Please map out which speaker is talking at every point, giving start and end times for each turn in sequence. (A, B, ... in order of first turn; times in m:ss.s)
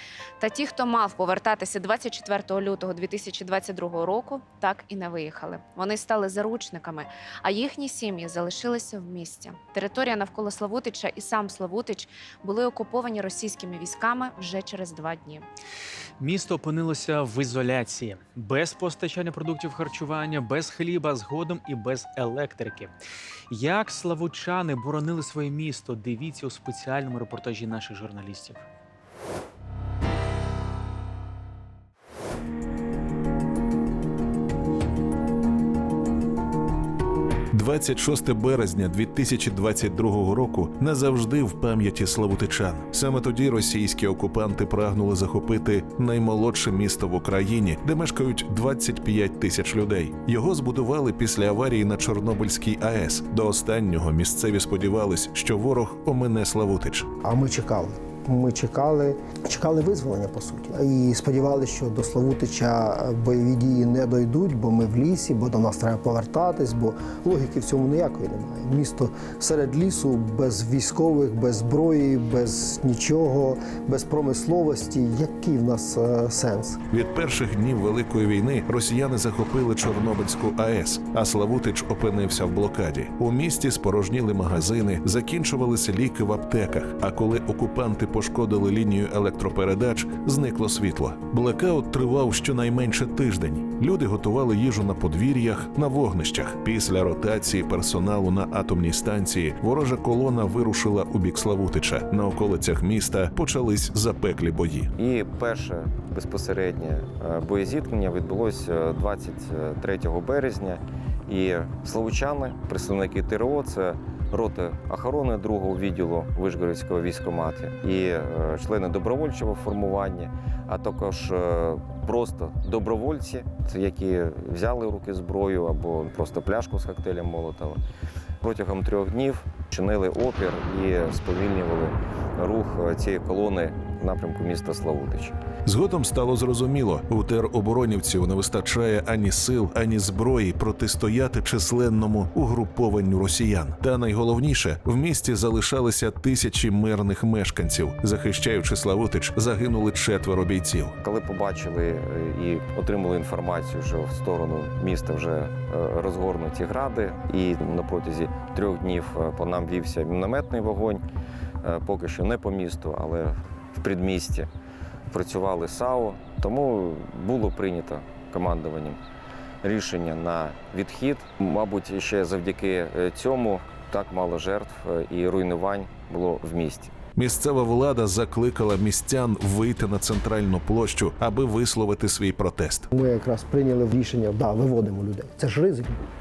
0:00.4-0:15.4 A
0:16.2-0:22.9 B
0:23.5-0:28.6 B
0:37.5-0:57.1 C
0:57.2-1:16.8 D
1:16.9-1:44.9 C
1:45.0-2:07.8 E
2:08.4-2:15.4 E
2:15.6-2:31.0 C
2:31.0-2:41.0 E
2:41.6-2:44.5 E
2:45.1-2:49.0 E
2:49.6-2:56.9 E
2:57.2-3:02.9 C
3:02.9-3:06.0 D